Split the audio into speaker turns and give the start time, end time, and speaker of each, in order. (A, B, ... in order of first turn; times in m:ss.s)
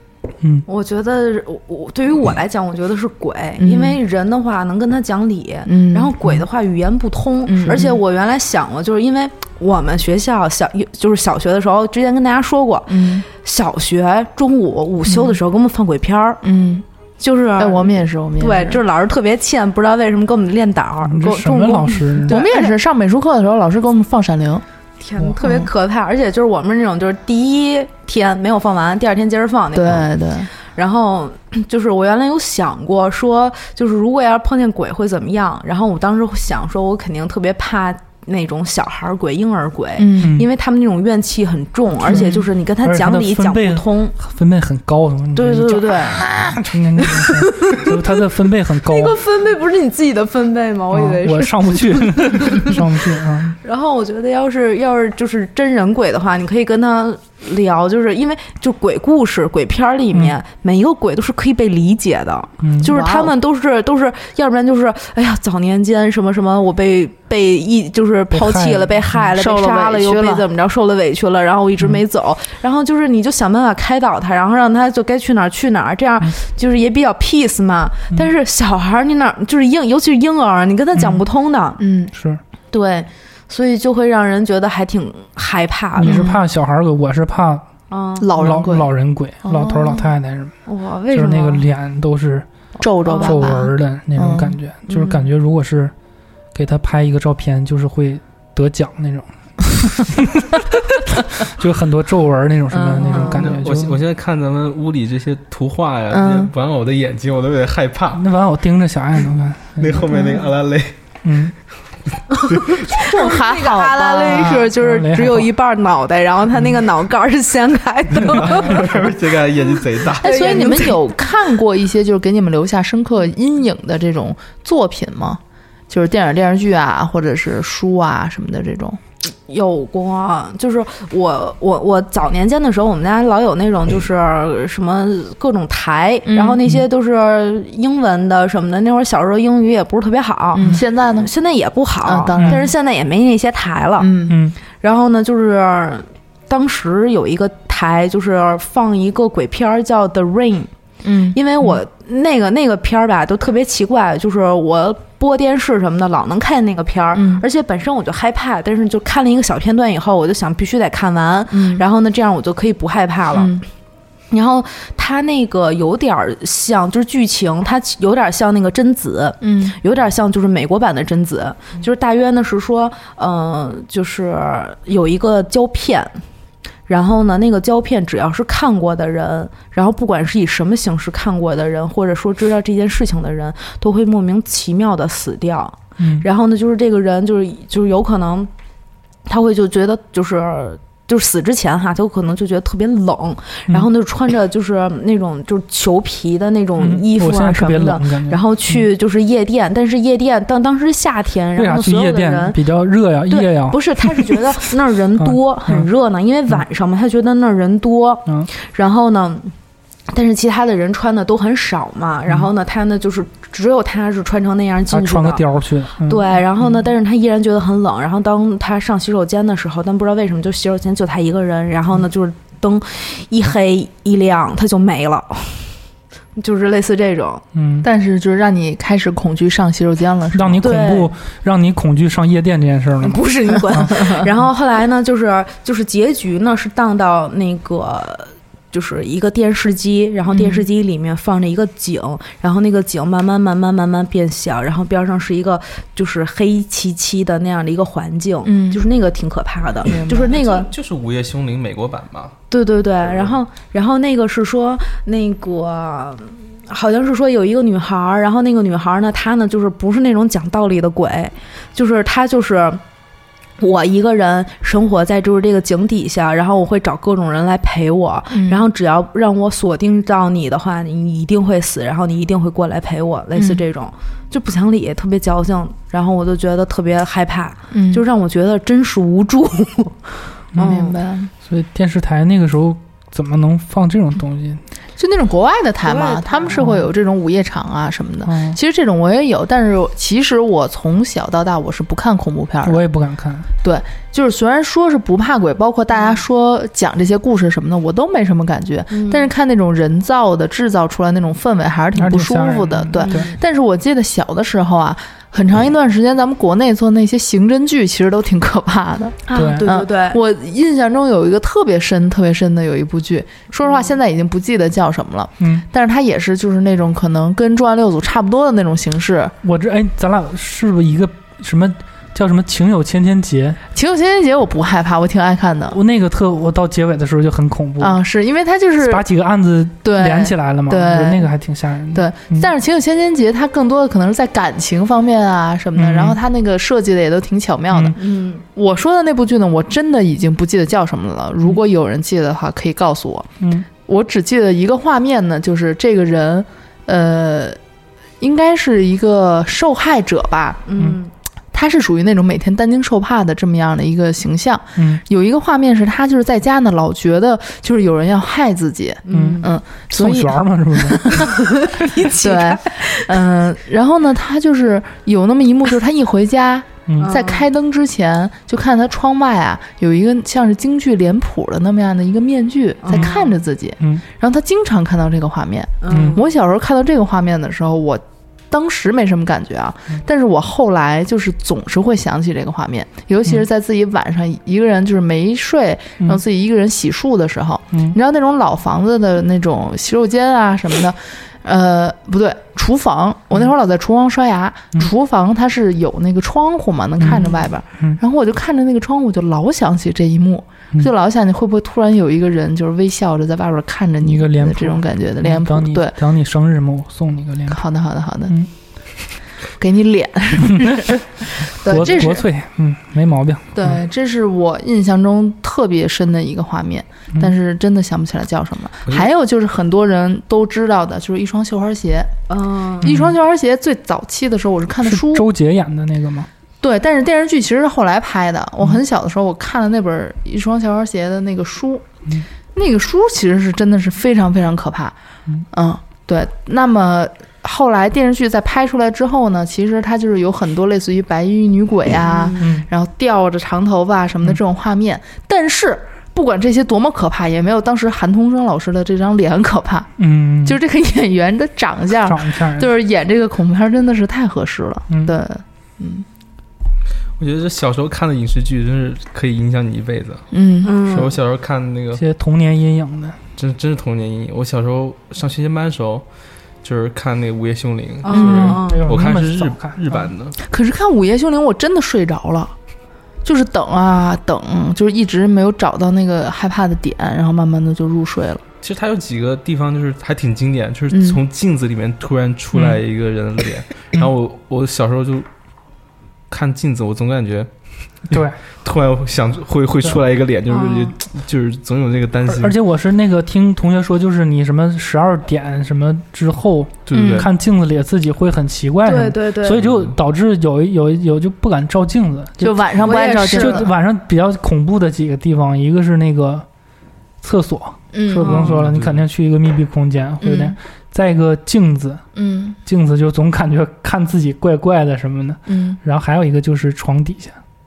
0:00.6-0:16.4 A
0:03.6-0:04.0 B
0:05.7-0:06.4 B
0:07.4-0:08.0 B
0:12.9-0:13.2 B
0:15.0-0:15.4 B
0:16.4-0:16.8 B
0:17.2-0:22.7 A
0:17.6-0:18.8 B
0:21.0-0:22.4 C
0:22.3-0:24.6 B
0:25.0-0:30.1 A
0:25.4-0:25.7 B
0:29.7-0:30.5 B
0:30.6-0:44.2 A
0:40.0-0:40.4 B
0:40.2-0:40.5 C
0:42.0-0:49.2 C
0:42.0-0:42.4 B
0:45.4-0:46.2 A
0:47.2-0:47.9 A
0:48.9-0:52.7 A
0:50.9-0:53.6 C
0:53.6-1:21.8 A
1:02.6-1:02.9 C
1:02.8-1:03.3 B
1:08.3-1:09.2 C
1:09.3-1:10.5 B
1:20.9-1:21.2 C
1:21.8-1:22.1 B
1:22.1-1:22.4 C
1:22.7-1:26.2 A
1:26.0-1:27.7 C
1:26.0-1:26.4 B
1:27.9-1:28.3 A
1:28.2-1:28.9 B
1:28.4-1:30.6 C
1:29.4-1:30.1 B
1:30.6-1:31.6 A
1:31.1-1:32.5 C
1:32.8-1:34.6 B
1:33.0-1:33.5 A
1:33.1-1:35.9 C
1:34.9-1:35.2 A
1:36.5-1:40.6 C
1:41.2-1:44.0 C
1:42.7-1:43.5 B
1:43.3-1:48.2 D
1:46.1-1:46.5 B
1:48.1-1:50.2 C
1:49.8-1:50.9 D
1:51.2-1:51.5 C
1:52.6-1:59.0 A
1:52.9-1:54.7 B
1:54.7-1:55.5 C
1:58.2-2:00.7 D
1:58.5-1:58.9 C
2:00.2-2:01.3 A
2:00.2-2:09.0 B
2:09.5-2:20.6 A
2:16.3-2:16.6 B
2:20.5-2:21.3 B
2:21.2-2:24.1 A
2:22.0-2:22.7 B
2:22.4-2:22.6 C
2:24.0-2:24.4 B
2:24.3-2:24.6 C
2:24.8-2:30.7 A
2:31.0-2:31.4 B
2:31.3-2:43.6 A
2:37.1-2:37.4 B
2:41.5-2:41.8 B
2:43.3-2:43.6 B
2:44.3-2:56.2 A
2:49.4-2:49.8 B
2:56.9-3:08.5 A
3:06.0-3:06.2 C
3:09.2-3:22.6 A
3:16.8-3:18.9 C
3:21.6-3:24.6 C
3:23.3-3:29.5 A
3:25.2-3:25.9 C
3:30.1-3:35.4 A
3:34.9-3:36.3 C
3:36.0-3:45.8 A
3:46.4-3:47.4 A
3:47.5-3:47.9 C
3:47.8-3:50.6 B
3:50.3-3:54.1 C
3:50.6-3:51.1 A
3:53.0-4:10.7 A
4:00.3-4:00.6 B
4:08.4-4:08.8 B
4:09.9-4:10.3 B
4:10.2-4:12.4 D
4:12.5-4:22.8 A
4:23.6-4:41.0 A
4:28.3-4:28.6 B
4:33.4-4:33.6 B
4:37.7-4:38.0 B
4:40.5-4:40.8 C
4:40.6-4:41.3 B
4:41.4-4:44.6 C
4:45.0-4:52.8 B
4:45.8-4:46.6 A
4:46.5-4:46.9 C
4:48.2-4:48.6 C
4:52.6-4:53.5 C
4:53.6-5:19.3 B
4:58.9-4:59.3 A
5:01.9-5:03.3 C
5:03.0-5:03.4 A
5:09.2-5:10.2 A
5:09.3-5:09.6 C
5:13.6-5:13.9 A
5:15.4-5:15.6 C
5:19.4-5:23.6 C
5:23.7-5:25.8 B
5:25.7-5:28.0 C
5:27.8-5:29.0 B
5:28.8-5:32.5 C
5:29.8-5:31.3 B
5:31.9-5:43.3 B
5:35.7-5:36.2 C
5:37.7-5:38.0 C
5:37.9-5:38.4 A
5:43.4-5:43.7 C
5:43.8-5:47.6 B
5:48.2-5:50.6 B
5:50.6-5:51.1 A
5:51.5-6:45.9 B
5:54.8-5:55.0 C
5:59.0-5:59.5 A
5:59.1-6:01.3 C
6:01.4-6:03.0 A
6:06.9-6:07.2 C
6:07.0-6:07.5 A
6:12.8-6:13.3 A
6:12.9-6:13.1 C
6:15.8-6:16.2 A
6:15.9-6:16.2 C
6:37.0-6:38.0 C
6:44.0-6:47.6 C
6:47.5-6:48.4 B
6:49.6-6:52.2 B
6:50.5-6:50.9 C
6:51.6-6:53.8 C
6:53.5-7:02.1 B
7:02.3-7:02.9 A
7:02.8-7:05.2 B
7:02.8-7:03.2 C
7:04.8-7:06.3 C
7:06.6-7:11.9 B
7:12.5-7:14.9 B
7:15.5-7:29.9 B
7:22.0-7:22.4 A
7:22.4-7:22.7 C
7:30.0-7:30.6 C
7:30.4-7:36.0 B
7:32.0-7:32.7 C
7:34.9-7:35.2 C
7:37.2-7:40.3 D
7:40.3-7:40.8 B
7:40.6-7:41.1 A
7:40.8-7:42.0 D
7:41.9-7:43.2 C
7:43.4-7:46.0 D
7:46.6-7:50.4 D
7:48.0-7:48.9 A
7:48.1-7:48.6 B
7:48.3-7:50.0 C
7:50.4-7:52.5 B
7:53.2-7:58.4 B
7:58.6-8:05.3 D
8:00.9-8:01.2 B
8:02.5-8:02.8 C
8:06.3-8:07.5 D
8:08.0-8:12.6 D
8:08.1-8:08.4 C
8:10.5-8:10.9 A
8:12.2-8:26.4 C
8:16.9-8:17.3 D
8:16.9-8:17.3 B
8:18.8-8:19.6 A
8:19.5-8:19.9 D
8:22.4-8:23.7 B
8:22.8-8:23.6 A
8:27.2-8:32.0 C
8:27.9-8:28.5 B
8:28.2-8:28.5 A
8:28.5-8:29.0 D
8:30.2-8:30.5 B
8:32.1-8:32.6 B
8:32.6-8:37.4 C
8:35.5-8:35.8 B